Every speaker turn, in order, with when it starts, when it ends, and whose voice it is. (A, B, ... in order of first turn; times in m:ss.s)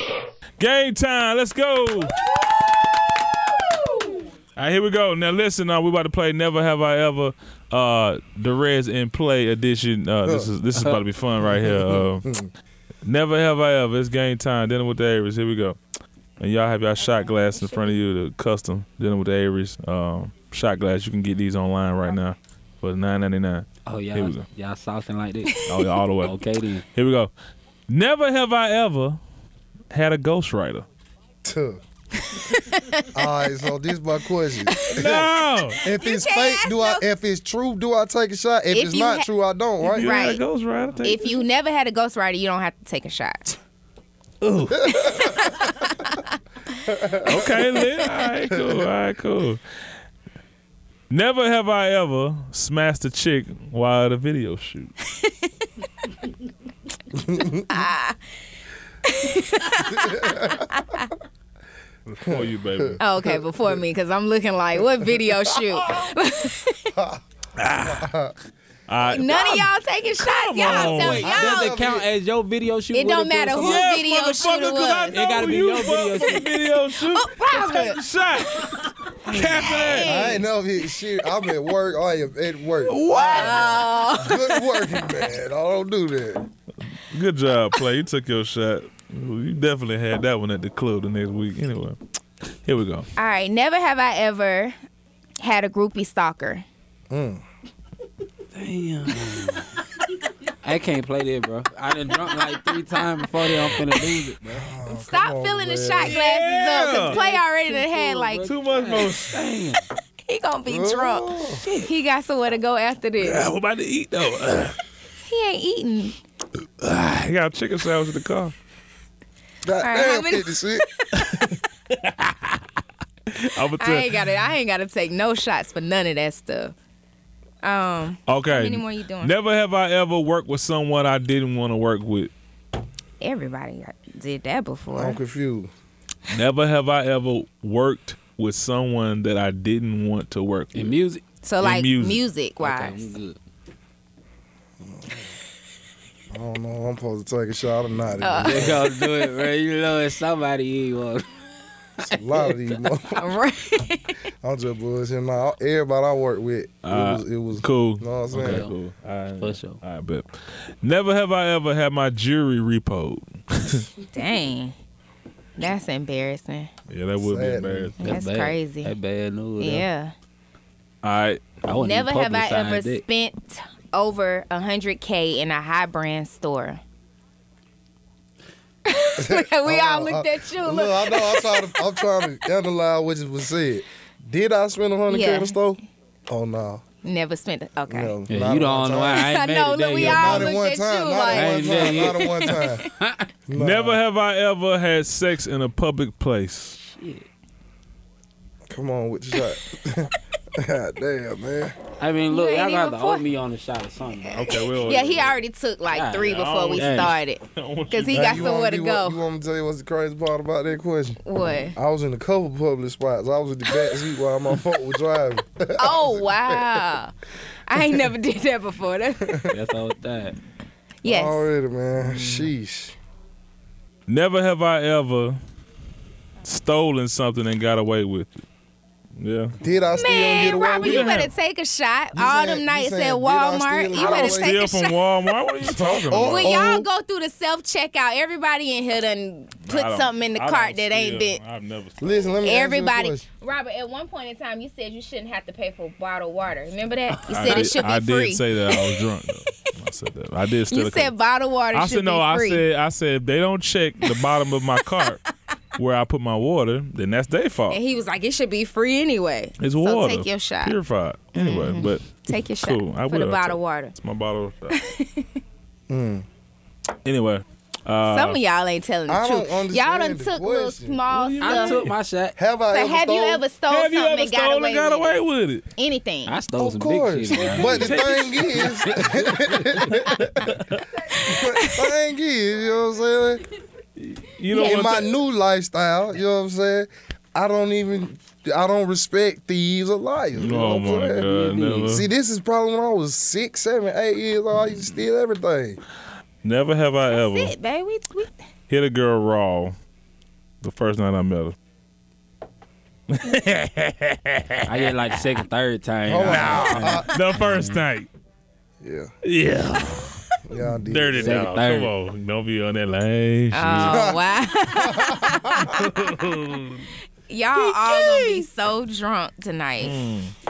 0:00.6-0:02.2 A
0:04.6-0:12.2 A
0:10.2-0:10.5 B
0:11.4-0:12.5 B
0:13.0-0:15.8 A
0:16.4-0:24.5 A
0:17.0-0:18.0 C
0:23.8-0:25.6 D
0:25.6-0:26.4 A
0:26.2-0:26.8 D
0:26.9-0:27.3 A
0:27.9-0:29.2 A
0:29.9-0:30.8 A
0:31.4-0:31.8 B
0:32.3-0:33.1 C
0:33.1-0:35.3 B
0:34.7-0:35.2 C
0:34.9-0:35.8 A
0:35.8-0:37.0 C
0:35.8-0:40.1 B
0:38.7-0:39.3 C
0:39.8-0:41.4 A
0:40.0-0:40.4 C
0:41.0-0:43.5 C
0:44.4-0:45.0 A
0:44.7-0:45.4 B
0:44.9-0:46.3 C
0:46.9-0:47.6 B
0:47.2-0:49.6 A
0:48.5-0:48.8 B
0:51.1-0:54.9 A
0:55.2-0:55.5 C
0:57.1-0:57.7 B
0:57.7-0:58.2 C
0:59.0-1:01.1 C
0:59.8-1:00.7 B
1:02.1-1:03.0 A
1:02.2-1:03.8 B
1:03.0-1:06.9 C
1:06.9-1:07.2 B
1:07.6-1:08.1 A
1:07.8-1:08.3 B
1:08.9-1:11.3 A
1:09.1-1:11.8 C
1:10.6-1:13.9 D
1:11.2-1:12.1 B
1:12.9-1:15.4 C
1:13.6-1:20.2 A
1:15.1-1:16.5 D
1:17.0-1:18.0 C
1:18.6-1:20.4 C
1:19.3-1:19.8 D
1:20.0-1:26.5 B
1:22.8-1:23.8 A
1:23.1-1:25.1 C
1:27.1-1:32.0 A
1:32.6-1:33.1 A
1:33.2-1:34.8 C
1:35.4-1:36.6 C
1:37.1-1:37.4 B
1:38.5-1:39.8 D
1:40.6-1:44.7 D
1:44.5-1:46.2 B
1:44.9-1:48.5 C
1:46.0-1:47.2 A
1:47.0-1:49.8 D
1:48.4-1:49.4 A
1:50.2-1:53.4 C
1:50.6-1:51.6 B
1:51.6-1:51.9 D
1:53.2-1:54.8 A
1:55.2-1:56.2 C
1:56.8-1:58.5 A
1:59.6-2:00.8 B
1:59.8-2:01.6 C
2:01.2-2:02.6 A
2:03.3-2:04.2 A
2:03.8-2:06.7 C
2:07.6-2:09.3 C
2:08.3-2:12.3 A
2:13.2-2:15.2 C
2:14.9-2:15.7 B
2:16.3-2:20.9 A
2:20.7-2:21.2 D
2:21.4-2:23.1 C
2:21.6-2:22.2 A
2:22.6-2:23.4 D
2:24.8-2:25.1 B
2:26.3-2:28.9 B
2:28.2-2:29.0 C
2:28.3-2:31.3 D
2:32.0-2:33.4 B
2:32.1-2:32.5 D
2:33.1-2:34.2 C
2:34.4-2:38.6 B
2:36.8-2:40.3 A
2:38.4-2:38.7 D
2:39.4-2:39.8 D
2:40.8-2:43.8 A
2:44.1-2:44.7 C
2:45.6-2:46.7 C
2:46.9-2:48.1 A
2:47.2-2:47.9 B
2:48.0-2:48.9 C
2:48.0-2:49.8 D
2:49.6-2:50.1 C
2:51.0-2:51.4 A
2:51.6-2:53.0 D
2:51.7-2:56.8 C
2:58.8-3:02.0 C
2:59.2-3:06.8 B
3:05.1-3:05.6 C
3:07.0-3:08.2 C
3:07.9-3:09.4 B
3:08.3-3:10.6 D
3:09.0-3:12.9 C
3:10.0-3:12.8 B
3:11.3-3:13.3 D
3:13.5-3:14.0 B
3:13.5-3:16.8 A
3:16.8-3:17.2 D
3:18.7-3:21.8 B
3:22.0-3:24.4 D
3:22.3-3:23.2 C
3:24.3-3:25.4 A
3:24.4-3:29.2 C
3:25.9-3:27.2 D
3:26.2-3:28.6 A
3:28.1-3:31.2 B
3:31.2-3:31.8 C
3:31.7-3:36.8 B
3:35.8-3:37.1 C
3:37.7-3:39.5 C
3:39.5-3:40.4 D
3:41.0-3:41.4 C
3:41.0-3:43.0 B
3:44.1-3:45.4 A
3:46.4-3:48.4 A
3:49.2-3:49.5 A
3:49.6-3:51.1 B
3:49.9-3:55.3 C
3:50.8-3:51.3 A
3:52.1-3:54.6 B
3:54.0-3:56.6 A
3:55.6-3:56.9 B
3:56.2-4:01.4 C
3:59.6-4:02.4 A
4:02.0-4:03.2 B
4:02.4-4:08.9 C
4:07.3-4:11.1 A
4:10.7-4:12.6 C
4:11.7-4:15.2 A
4:15.8-4:17.8 A
4:17.7-4:20.8 C
4:19.6-4:24.8 A
4:21.3-4:23.9 C
4:24.7-4:25.3 C
4:25.9-4:26.2 B
4:27.0-4:28.4 A
4:28.1-4:31.9 C
4:29.1-4:31.0 B
4:31.1-4:31.9 A
4:31.4-4:32.4 D
4:32.4-4:33.4 B
4:32.7-4:35.1 C
4:33.7-4:35.6 A
4:35.8-4:36.3 C
4:36.2-4:39.8 D
4:36.6-4:40.5 B
4:37.3-4:38.8 A
4:41.1-4:41.9 C
4:41.2-4:43.4 B
4:44.0-4:45.1 A
4:44.5-4:45.1 C
4:44.6-4:55.8 B
4:50.4-4:52.1 A
4:51.3-4:52.0 D
4:56.4-4:57.5 A
4:57.1-4:58.3 C
4:58.7-4:59.7 A
5:00.6-5:01.6 A
5:03.1-5:04.8 A
5:04.6-5:07.8 D
5:06.0-5:07.1 B
5:06.2-5:08.1 A
5:08.8-5:09.1 B
5:09.2-5:10.1 A
5:10.5-5:11.5 B
5:10.9-5:14.1 A
5:11.2-5:11.9 D
5:13.5-5:15.8 C
5:13.9-5:15.9 B
5:15.7-5:16.9 A
5:17.3-5:20.0 C
5:17.6-5:18.4 A
5:19.8-5:20.3 A